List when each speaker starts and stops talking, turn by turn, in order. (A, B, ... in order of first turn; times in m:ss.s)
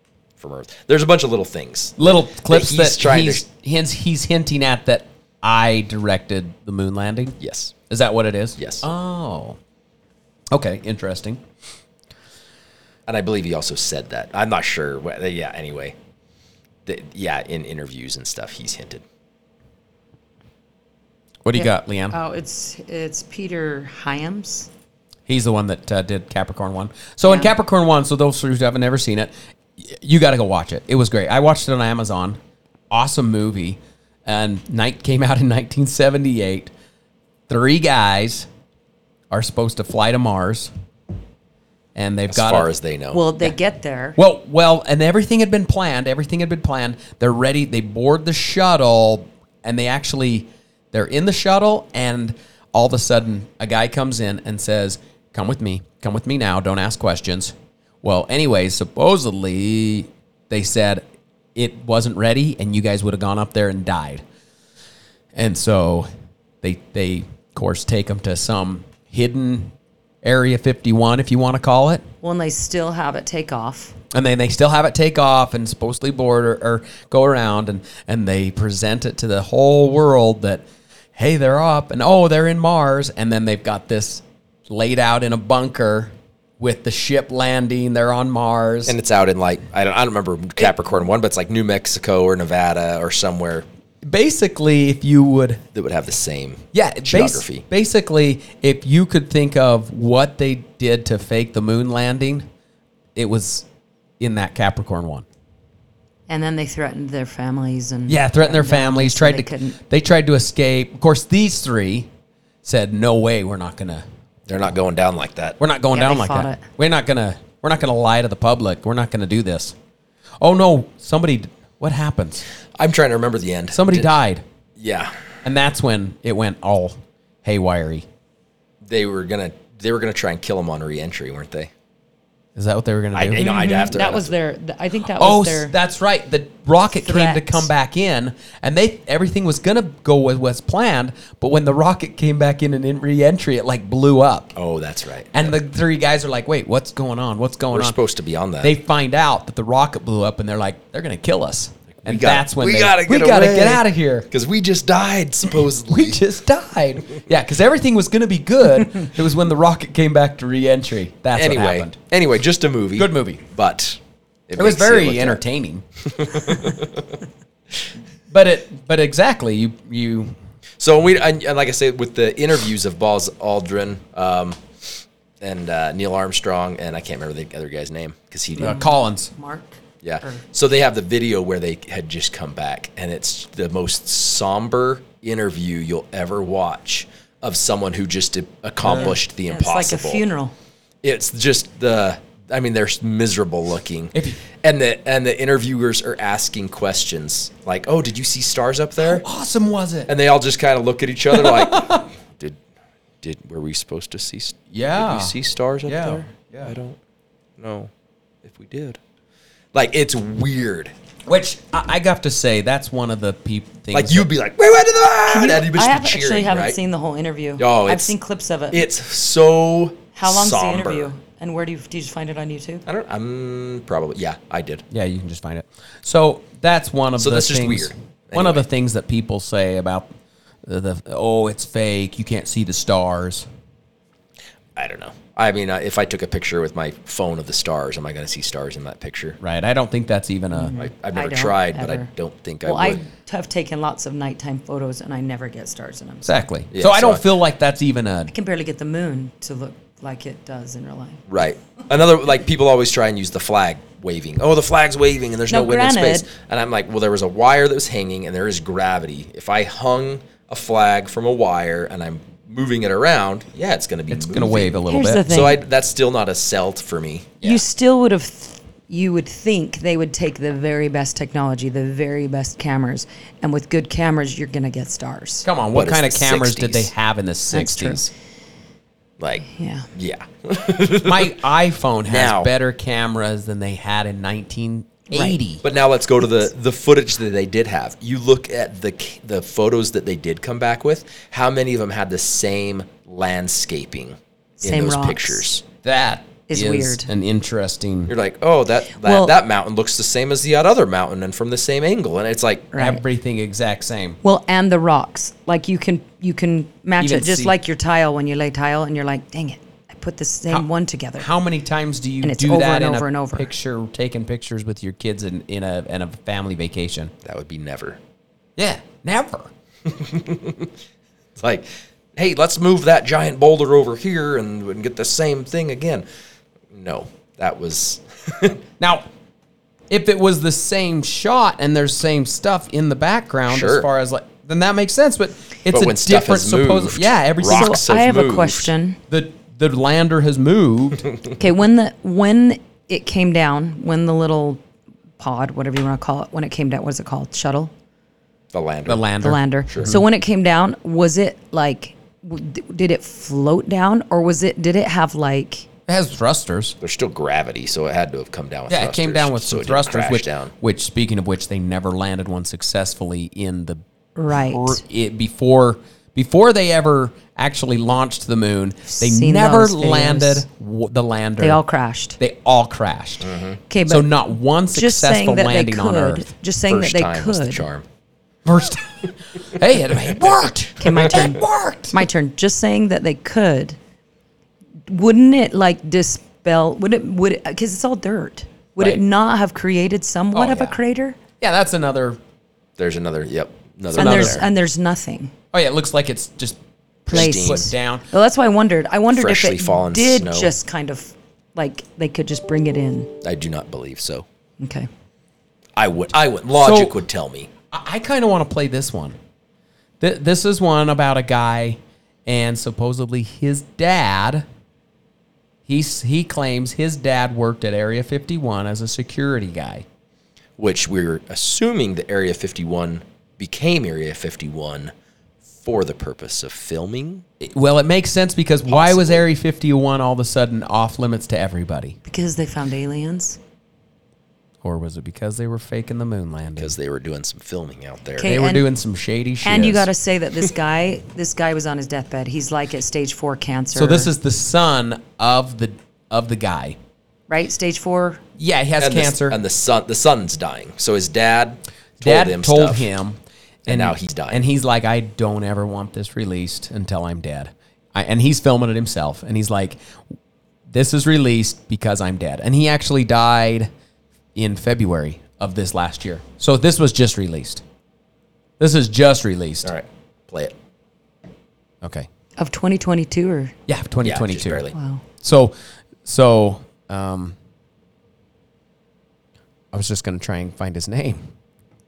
0:00.4-0:03.4 A
0:02.0-0:07.4 B
0:07.4-0:07.8 A
0:07.9-0:09.6 B
0:08.6-0:08.9 A
0:10.5-0:11.4 B
0:13.1-0:16.0 A
0:16.9-0:19.0 A
0:21.4-0:22.2 B
0:21.6-0:24.7 C
0:25.3-0:32.4 B
0:27.2-0:27.5 C
0:32.9-0:36.7 B
0:37.5-0:38.5 B
0:39.3-0:40.7 B
0:42.0-0:42.7 B
0:42.3-0:43.2 A
0:43.1-0:44.2 C
0:44.2-1:01.0 B
1:01.6-1:04.2 B
1:05.4-1:06.1 B
1:06.6-1:12.0 B
1:12.2-1:14.0 C
1:14.1-1:20.6 B
1:21.2-1:29.0 B
1:28.9-1:33.7 A
1:34.1-1:35.6 B
1:35.7-1:37.6 A
1:36.7-1:42.5 B
1:43.2-1:43.6 B
1:44.2-1:45.3 B
1:46.3-1:49.8 C
1:48.1-1:52.1 B
1:52.6-1:54.0 B
1:54.5-1:55.6 A
1:55.6-1:59.7 B
1:55.9-1:56.6 C
2:00.4-2:02.5 B
2:02.8-2:04.1 A
2:03.7-2:04.4 B
2:04.8-2:05.2 A
2:05.4-2:08.0 B
2:08.8-2:11.7 A
2:12.6-2:13.8 B
2:13.1-2:14.3 A
2:13.4-2:15.8 C
2:15.2-2:24.5 B
2:17.0-2:17.7 C
2:24.6-2:25.6 A
2:25.3-2:28.0 B
2:27.7-2:28.8 A
2:28.6-2:34.3 B
2:32.0-2:36.2 A
2:35.9-2:42.0 B
2:41.4-2:45.4 A
2:43.0-2:43.4 B
2:44.6-2:45.8 B
2:46.1-2:47.1 A
2:48.3-2:50.4 B
2:50.8-2:58.8 A
2:58.6-2:59.3 B
2:58.6-3:00.4 C
3:00.0-3:10.2 A
3:08.9-3:10.5 C
3:11.0-3:19.2 A
3:14.1-3:14.4 B
3:19.0-3:20.1 B
3:20.1-3:22.6 A
3:21.3-3:22.0 B
3:23.2-3:27.0 A
3:24.7-3:25.3 B
3:25.9-3:26.8 B
3:27.6-3:27.9 A
3:28.4-3:29.0 A
3:29.7-3:30.9 A
3:31.3-3:34.3 B
3:33.9-3:36.8 A
3:35.3-3:38.9 C
3:37.6-3:38.2 A
3:38.7-3:41.1 A
3:40.2-3:42.8 C
3:42.9-3:44.8 A
3:44.9-3:50.1 B
3:47.2-3:48.6 A
3:50.7-3:53.5 B
3:54.8-3:59.4 A
3:59.4-4:00.7 B
4:00.5-4:02.1 C
4:00.8-4:03.0 A
4:02.6-4:06.4 C
4:06.2-4:08.3 B
4:06.7-4:07.2 A
4:08.3-4:11.2 C
4:11.3-4:27.6 A
4:15.5-4:16.3 C
4:24.1-4:25.4 B
4:24.9-4:25.6 C
4:27.4-4:35.5 C
4:35.4-4:38.1 B
4:35.7-4:36.9 A
4:37.5-4:38.1 C
4:39.2-4:41.4 A
4:39.5-4:39.9 C
4:41.0-4:45.6 B
4:42.1-4:42.5 A
4:45.1-4:45.4 C
4:45.6-4:55.6 A
4:54.6-4:55.5 C
4:55.8-4:58.1 B
4:56.5-4:57.1 C
4:58.1-5:02.7 A
4:59.0-4:59.4 C
5:02.7-5:03.0 C
5:02.8-5:04.2 B
5:04.2-5:11.3 C
5:07.0-5:07.5 B
5:10.5-5:17.1 B
5:12.2-5:13.5 C
5:17.2-5:18.0 A
5:18.6-5:19.5 B
5:19.9-5:20.7 A
5:21.4-5:26.1 A
5:26.7-5:28.6 A
5:28.8-5:29.1 B
5:29.9-5:37.8 B
5:33.5-5:33.9 A
5:35.7-5:38.7 A
5:37.5-5:39.0 C
5:39.1-5:41.1 B
5:41.4-5:44.6 C
5:45.2-5:47.7 C
5:48.5-5:49.1 A
5:48.9-5:50.0 B
5:49.2-5:55.7 C
5:55.9-5:56.8 B
5:56.8-6:00.5 A
5:58.7-6:11.6 B
6:04.2-6:04.8 C
6:08.9-6:10.4 C
6:11.4-6:12.2 C
6:12.2-6:13.3 B
6:13.2-6:13.6 A
6:13.7-6:17.7 C
6:13.9-6:16.3 B
6:16.7-6:17.9 A
6:18.4-6:22.0 B
6:20.8-6:23.8 C
6:24.9-6:31.2 C
6:30.3-6:30.8 B
6:31.4-6:32.2 B
6:32.8-6:34.5 A
6:34.0-6:34.4 B
6:34.0-6:35.3 C
6:35.5-6:38.0 B
6:37.1-6:37.7 A
6:37.1-6:43.1 C
6:39.1-6:40.5 A
6:43.2-6:44.3 A
6:44.6-6:44.9 C
6:45.8-6:47.5 A
6:46.6-6:46.9 B
6:47.7-6:49.2 B
6:50.0-6:54.4 B
6:55.7-6:59.8 B
7:00.6-7:04.9 A
7:05.6-7:07.3 A
7:07.4-7:12.0 B
7:08.7-7:09.2 A
7:12.1-7:13.4 C
7:14.6-7:16.8 B
7:16.6-7:18.4 A
7:18.2-7:18.6 C
7:18.2-7:19.9 B
7:19.4-7:24.1 C
7:23.7-7:26.8 B
7:27.3-7:28.2 C
7:28.4-7:29.4 B
7:28.8-7:32.9 A
7:32.0-7:39.8 B
7:33.7-7:34.5 A
7:40.7-7:43.7 B
7:44.4-7:47.6 B
7:48.6-7:49.7 B
7:49.6-7:50.6 A
7:51.8-7:52.1 B
7:52.4-7:53.5 C
7:53.7-7:54.6 B
7:54.0-7:54.7 A
7:54.7-7:55.0 C
7:55.2-7:57.4 B
7:59.7-8:01.2 B